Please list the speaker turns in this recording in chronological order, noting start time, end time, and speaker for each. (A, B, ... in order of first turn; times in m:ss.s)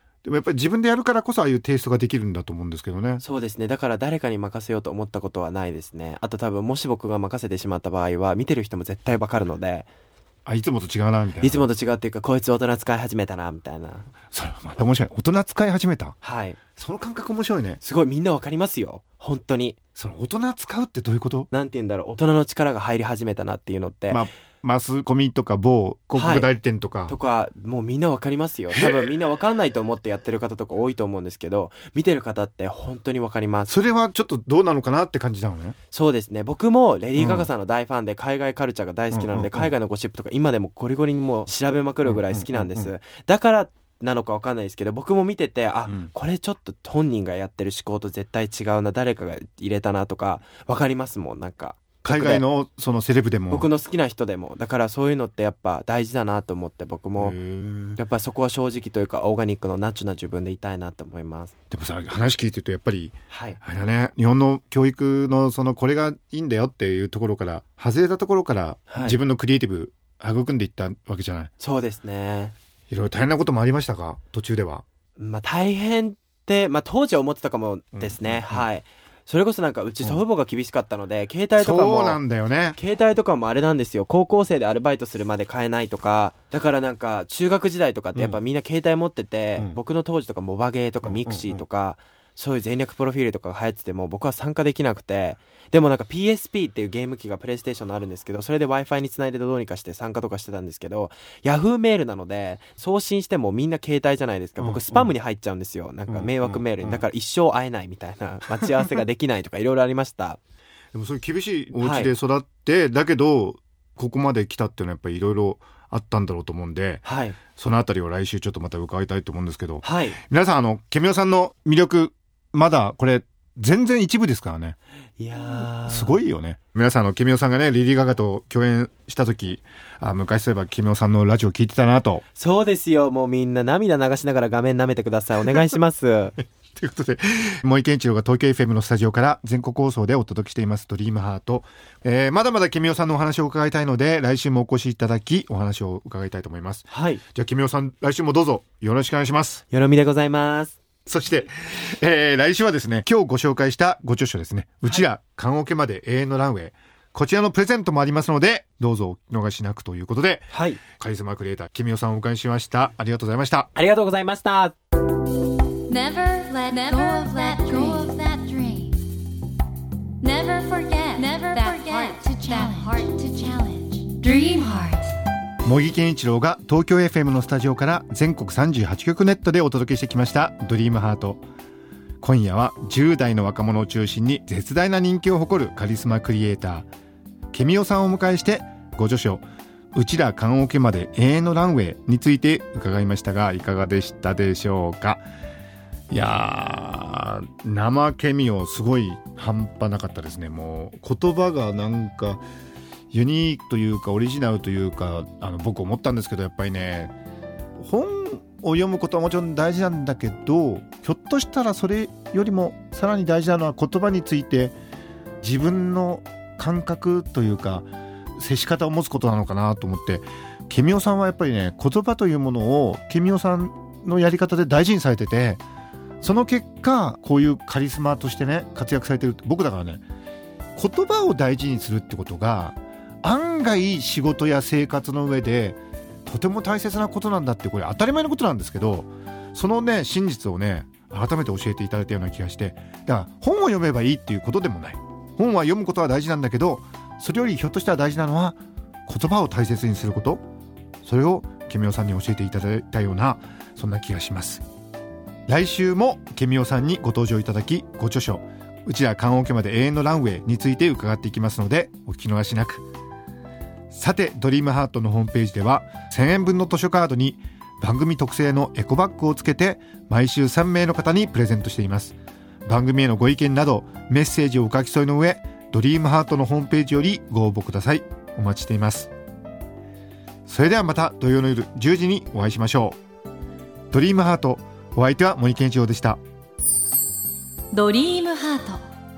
0:00.2-0:03.2 A
0:03.2-0:09.9 B
0:10.4-0:11.6 A
0:11.4-0:14.1 B
0:14.3-0:16.2 A
0:16.2-0:16.6 B
0:16.8-0:17.8 A
0:17.8-0:19.8 B
0:20.0-0:21.5 A
0:21.5-0:24.2 B
0:24.1-0:27.2 A
0:26.2-0:26.5 B
0:27.1-0:33.7 B
0:28.7-0:29.1 A
0:33.7-0:35.8 A
0:35.9-0:52.4 B
0:37.2-0:37.5 A
0:39.1-0:39.7 A
0:42.1-0:42.9 A
0:52.0-0:53.7 A
0:53.5-0:57.4 B
0:57.2-0:58.0 A
0:58.0-1:01.5 B
1:01.7-1:11.5 A
1:03.3-1:03.6 B
1:08.9-1:09.2 B
1:11.6-1:12.5 B
1:12.9-1:14.8 A
1:15.2-1:22.2 B
1:18.0-1:18.7 A
1:21.6-1:22.8 A
1:22.8-1:50.4 B
1:28.2-1:28.4 A
1:31.0-1:31.6 A
1:44.6-1:45.1 A
1:46.1-1:47.0 A
1:50.9-2:04.8 A
1:51.8-1:52.1 B
1:57.0-1:57.4 B
1:59.8-2:00.2 B
2:05.2-2:06.2 B
2:05.6-2:12.2 A
2:12.4-2:16.4 B
2:16.7-2:29.6 A
2:26.9-2:27.2 B
2:29.7-2:30.8 B
2:31.1-2:43.7 A
2:40.5-2:40.8 B
2:43.8-2:44.8 B
2:45.9-2:49.0 C
2:50.2-2:55.1 C
2:55.6-3:01.4 A
3:02.2-3:06.9 A
3:07.5-3:15.2 A
3:16.1-3:22.4 A
3:23.1-3:27.1 A
3:27.8-3:34.8 A
3:35.4-3:45.6 A
3:46.2-3:50.0 A
3:50.8-4:10.4 A
4:11.0-4:14.6 A
4:15.5-4:22.9 A
4:23.9-4:39.1 A
4:40.5-4:43.0 A
4:43.9-4:46.2 A
4:47.7-4:48.8 C